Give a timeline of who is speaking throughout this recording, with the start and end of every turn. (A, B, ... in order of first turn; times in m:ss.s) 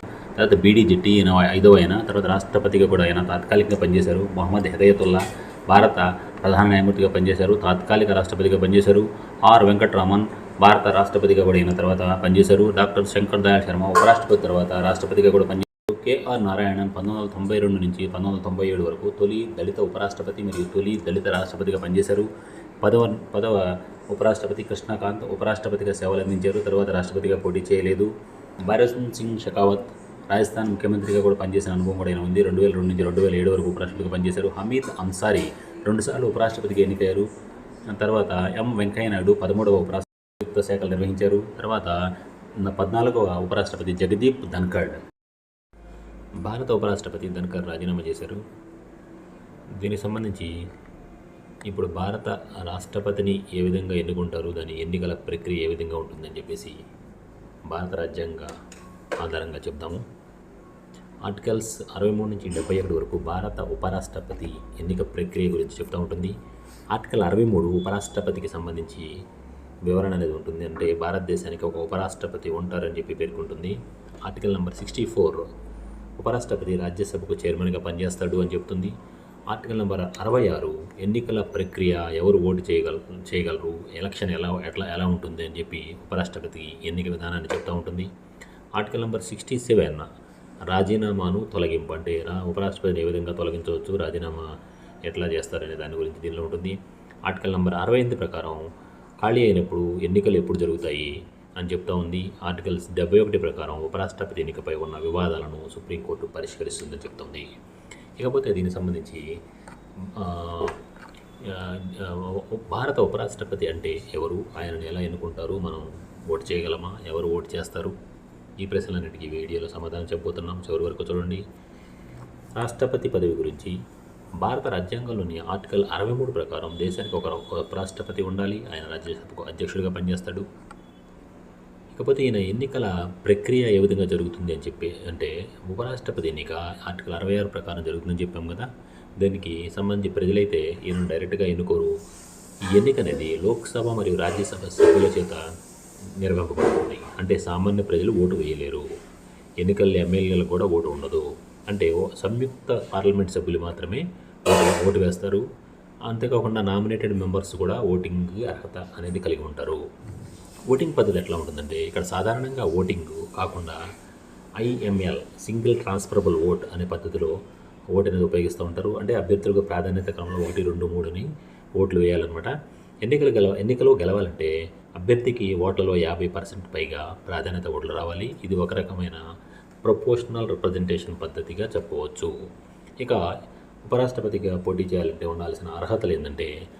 0:00.4-0:22.3 A
0:22.8-0:28.1 A
0:28.6-0:37.3 A
0:37.9-0:42.0 A
0:42.6-0:45.0 A
0:46.4-0:48.4 A
0:49.8-0:50.5 A
0:51.7-0:56.8 A
0:57.7-0:58.5 A
0:59.2-1:00.0 A
1:01.2-1:06.3 A
1:06.9-1:09.1 A
1:09.9-1:15.5 A
1:16.2-1:18.9 A
1:19.5-1:28.1 A
1:28.8-1:30.1 A
1:30.7-1:34.5 A
1:35.0-1:36.8 A
1:37.3-1:38.6 A
1:39.2-1:47.5 A
1:48.2-1:49.2 A
1:50.0-1:50.8 A
1:51.4-1:58.0 A
1:58.6-2:01.4 A
2:02.5-2:03.8 A
2:04.4-2:10.4 A
2:11.9-2:18.7 A
2:19.2-2:21.9 A
2:22.7-2:25.4 A
2:26.2-2:28.8 A
2:29.6-2:35.4 A
2:36.1-2:39.8 A
2:40.7-2:43.8 A
2:44.6-2:47.4 A
2:47.9-2:59.2 A
2:59.8-3:02.3 A
3:03.8-3:06.5 A